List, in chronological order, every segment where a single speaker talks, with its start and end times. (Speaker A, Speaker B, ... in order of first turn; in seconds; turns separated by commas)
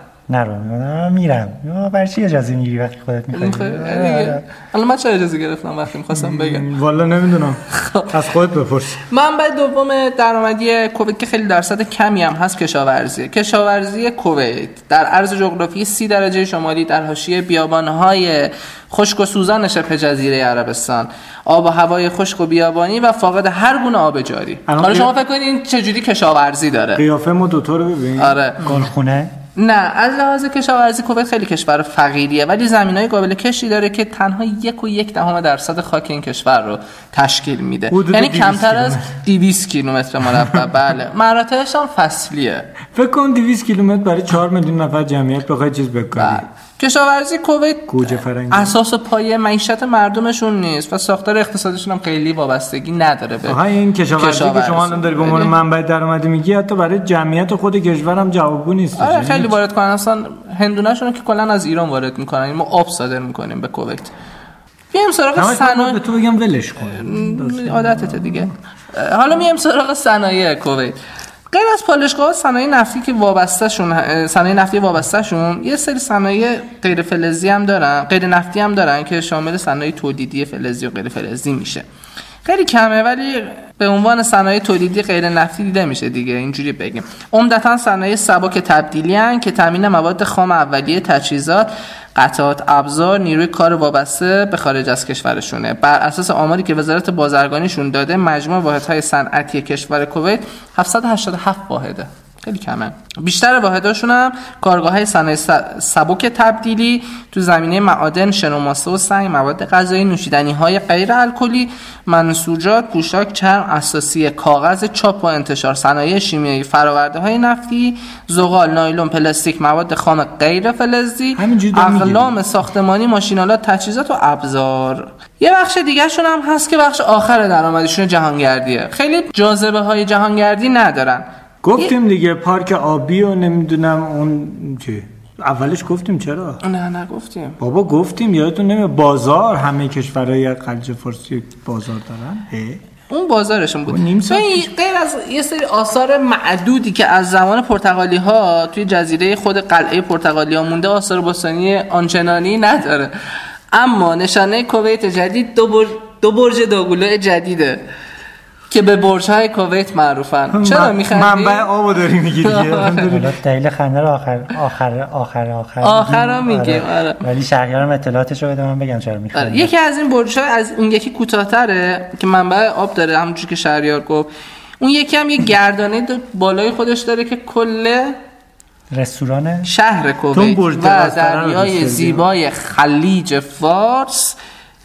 Speaker A: 0.3-4.4, Speaker B: 3.3-6.7, Speaker C: 6.2-9.0, Speaker B: 7.7-8.1, Speaker B: 9.1-27.0, Speaker C: 24.7-25.1, Speaker C: 27.0-28.4, Speaker B: 28.2-28.7, Speaker A: 28.6-29.3, Speaker B: 29.6-42.7, Speaker C: 37.9-39.1, Speaker C: 42.9-46.5, Speaker B: 46.2-53.6, Speaker C: 47.9-48.7, Speaker C: 53.5-59.5, Speaker B: 54.2-55.5, Speaker B: 59.0-64.1, Speaker B: 64.9-66.0, Speaker C: 65.4-68.5, Speaker B: 66.9-71.0, Speaker B: 71.5-81.9, Speaker B: 82.5-131.3, Speaker C: 121.4-122.3, Speaker C: 131.6-136.6, Speaker B: 136.6-137.6, Speaker C: 137.6-142.8, Speaker B: 143.1-153.1, Speaker C: 143.9-144.7, Speaker B: 153.7-157.8, Speaker B: 158.7-161.7, Speaker C: 160.5-163.2, Speaker B: 162.4-163.1, Speaker A: 163.1-169.7, Speaker B: 165.8-167.2, Speaker B: 169.3-178.2, Speaker A: 178.9-179.7, Speaker B: 179.7-184.4, Speaker C: 180.3-182.2